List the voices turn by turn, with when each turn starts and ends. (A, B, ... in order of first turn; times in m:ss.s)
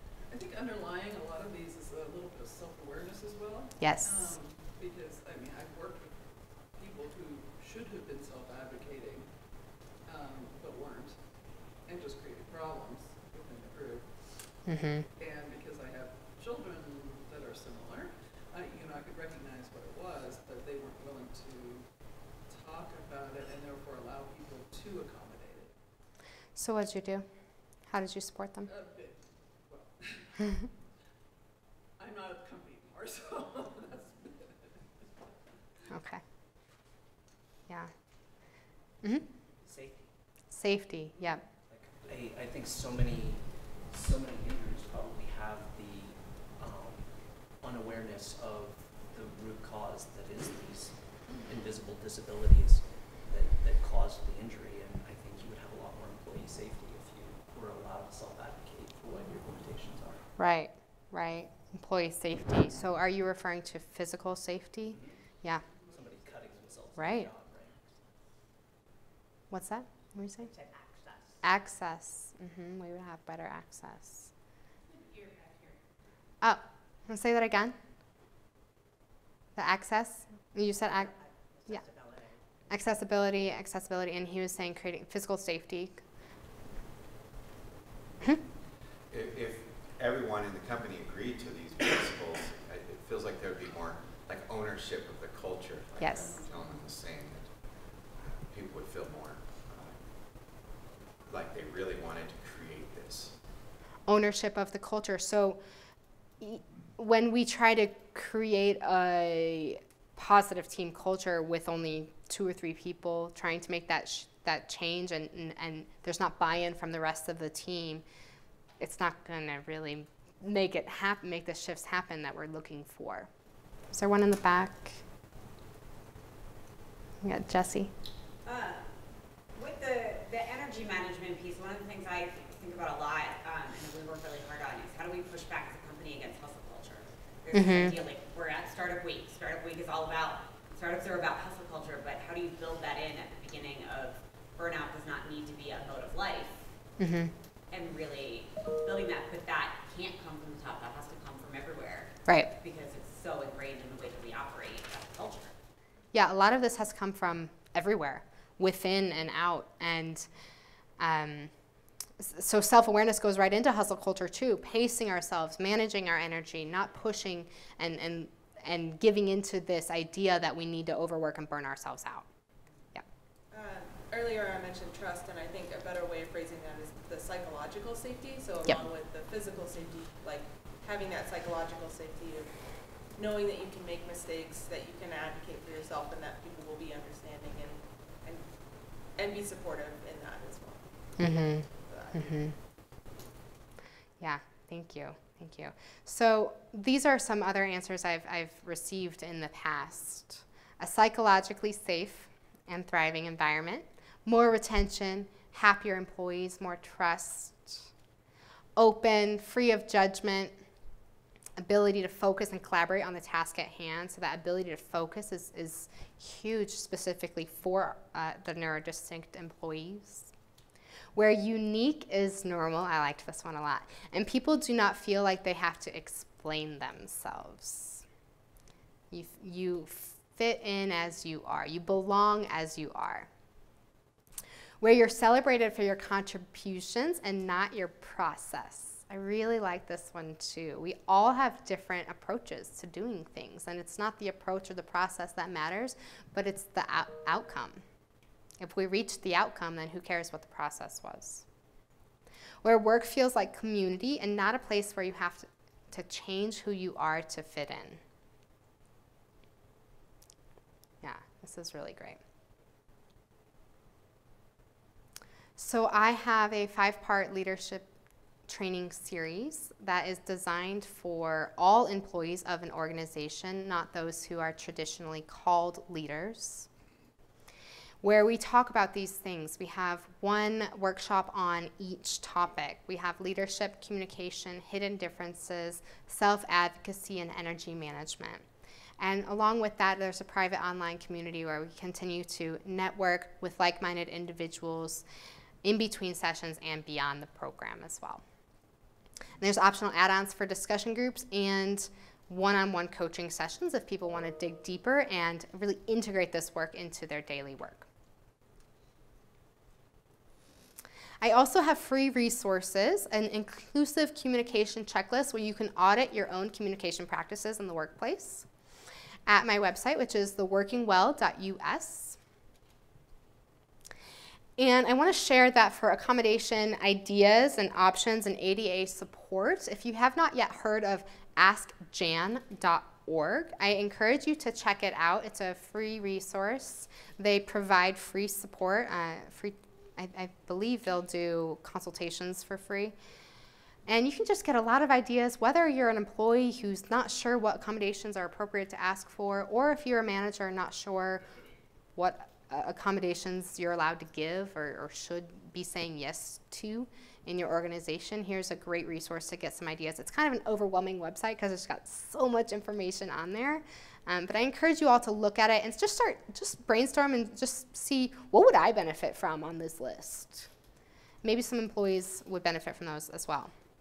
0:00.3-0:26.0 A
0:03.8-0:04.4 B
0:14.7-0:15.1 B
0:26.6-0:28.7 B
0:28.6-0:30.7 A
0:32.0-0:34.6 A
0:35.9-0:36.2 B
0:37.7-0:38.5 B
0:39.0-0:39.3 B
0:39.6-0:40.2 C
0:40.5-0:41.4 B
0:41.7-1:00.3 C
1:00.4-1:05.6 B
1:04.9-1:08.2 C
1:07.0-1:07.3 B
1:09.5-1:10.5 B
1:10.4-1:11.4 D
1:11.4-1:14.3 B
1:16.4-1:17.8 B
1:19.6-1:21.1 B
1:21.9-1:22.3 D
1:22.7-1:26.0 B
1:29.0-1:40.7 E
1:36.0-1:36.3 B
1:41.2-1:43.5 E
1:44.1-1:45.6 B
1:46.4-1:58.0 B
1:58.8-2:05.0 B
2:07.2-2:07.9 B
2:08.4-2:26.9 D
2:17.5-2:18.0 B
2:27.0-2:27.3 B
2:27.7-2:35.6 D
2:36.1-2:40.3 B
2:41.0-2:52.3 B
2:53.5-3:12.5 F
3:11.2-3:12.5 B
3:14.2-3:27.9 B
3:28.8-3:30.6 B
3:31.6-3:40.3 B
3:41.2-3:48.0 B
3:49.1-3:53.3 B
3:54.8-4:07.8 B
4:08.6-4:11.4 B
4:12.6-4:18.0 B
4:21.0-4:22.2 B
4:25.6-4:27.9 B
4:28.5-4:36.7 B
4:38.0-4:48.4 B
4:49.0-4:55.0 B
4:55.6-4:58.2 B
4:59.4-5:07.9 B
5:11.2-5:18.5 B
5:19.3-5:22.2 B
5:24.6-5:43.0 B
5:43.9-5:51.3 B
5:52.0-6:10.5 B
6:11.2-6:13.5 B